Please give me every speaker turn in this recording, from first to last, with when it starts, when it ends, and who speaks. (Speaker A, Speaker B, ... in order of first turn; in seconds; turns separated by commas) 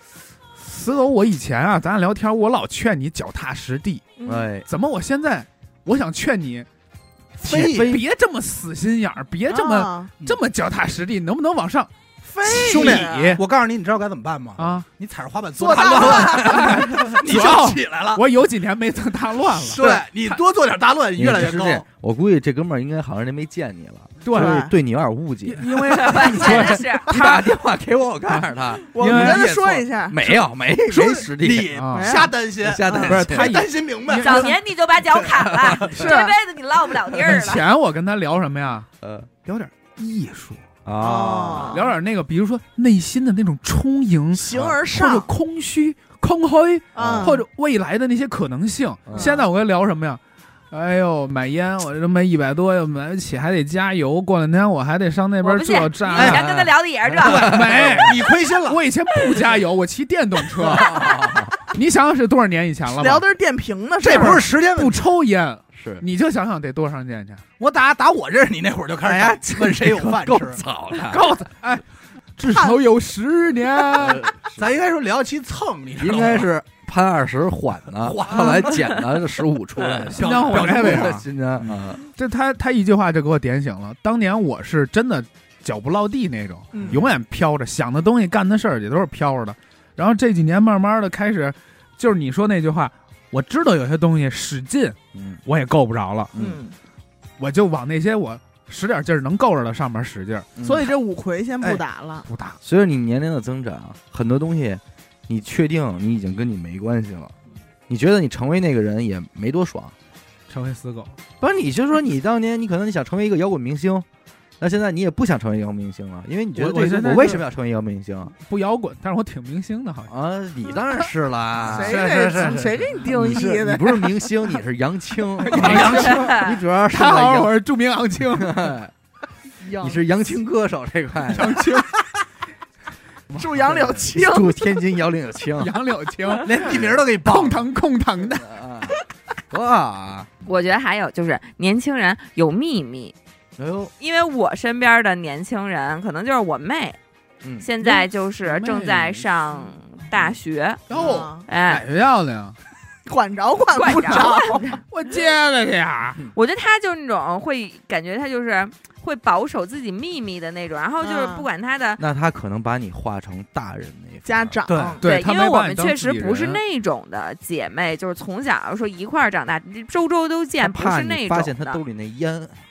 Speaker A: 0.6-4.1, Speaker B: 4.2-4.5, Speaker C: 4.2-4.7, Speaker A: 4.7-6.7, Speaker D: 7.4-8.0, Speaker C: 7.4-8.0, Speaker A: 7.5-11.9, Speaker B: 9.5-10.1, Speaker B: 12.2-13.4, Speaker A: 12.4-13.4, Speaker D: 12.4-18.2, Speaker A: 14.6-14.9, Speaker B: 15.6-17.2, Speaker A: 15.8-20.4, Speaker D: 19.6-21.9, Speaker C: 21.2-31.8, Speaker A: 24.2-24.6, Speaker B: 24.3-24.7, Speaker A: 25.5-27.5, Speaker E: 25.9-27.1, Speaker B: 27.1-27.4, Speaker B: 28.9-30.2, Speaker A: 29.0-29.5, Speaker D: 30.9-34.5, Speaker A: 31.2-32.1, Speaker B: 31.9-32.3, Speaker C: 32.6-33.6, Speaker B: 32.9-33.1, Speaker A: 33.0-34.5, Speaker E: 34.2-37.6, Speaker C: 35.6-35.9, Speaker B: 35.9-36.4, Speaker A: 37.2-38.9, Speaker C: 39.0-39.3, Speaker A: 39.4-40.6, Speaker C: 40.9-41.8, Speaker B: 41.0-41.9, Speaker A: 41.7-50.2, Speaker B: 44.3-45.3, Speaker B: 47.0-47.4, Speaker C: 47.0-47.3, Speaker C: 49.0-49.4, Speaker A: 50.7-56.4, Speaker E: 55.4-57.6, Speaker D: 56.1-56.4, Speaker C: 56.2-58.1, Speaker D: 57.2-58.8, Speaker A: 57.4-63.2, Speaker C: 60.6-61.5, Speaker B: 62.9-64.5, Speaker D: 64.0-65.0, Speaker A: 64.2-67.4, Speaker C: 65.8-66.0, Speaker D: 67.6-70.6, Speaker C: 69.0-71.3, Speaker A: 71.1-71.8, Speaker A: 72.4-74.3, Speaker B: 72.5-72.8, Speaker C: 73.9-74.7, Speaker D: 74.6-76.5, Speaker C: 76.0-82.0, Speaker D: 78.0-78.8, Speaker A: 80.1-96.3, Speaker D: 80.2-81.2, Speaker B: 86.7-87.0, Speaker C: 95.1-95.4, Speaker B: 96.4-96.8, Speaker A: 97.4-100.5, Speaker C: 100.6-100.9, Speaker B: 100.6-102.3, Speaker A: 102.3-102.6, Speaker C: 102.6-107.3, Speaker C: 107.9-109.9, Speaker A: 110.5-111.1, Speaker C: 111.4-114.1, Speaker C: 114.6-118.3, Speaker A: 116.6-117.5, Speaker A: 118.3-120.1, Speaker C: 120.1-122.1, Speaker D: 121.6-122.8, Speaker B: 121.7-124.6, Speaker A: 122.0-122.4, Speaker C: 123.1-127.5, Speaker A: 125.4-128.7, Speaker D: 125.5-126.4, Speaker E: 126.1-126.6, Speaker C: 128.3-128.9, Speaker B: 129.6-130.0, Speaker C: 129.8-131.7, Speaker A: 131.3-132.0, Speaker A: 133.3-134.0, Speaker B: 133.3-134.6, Speaker C: 134.2-135.8, Speaker A: 135.6-138.4, Speaker D: 136.4-137.7, Speaker C: 138.3-139.0, Speaker C: 139.5-140.3, Speaker E: 140.4-143.2, Speaker C: 143.6-143.9, Speaker E: 144.0-147.0, Speaker E: 147.6-150.9, Speaker A: 147.8-149.2, Speaker A: 150.9-152.6, Speaker B: 150.9-151.5, Speaker D: 150.9-151.2, Speaker E: 151.4-151.8, Speaker B: 153.1-154.8, Speaker E: 153.8-154.8, Speaker A: 154.9-156.3, Speaker E: 156.3-162.0, Speaker B: 161.0-161.5, Speaker C: 162.0-164.6, Speaker B: 164.2-165.0, Speaker D: 164.7-165.0, Speaker A: 165.0-166.6, Speaker E: 165.0-171.8, Speaker C: 170.6-172.6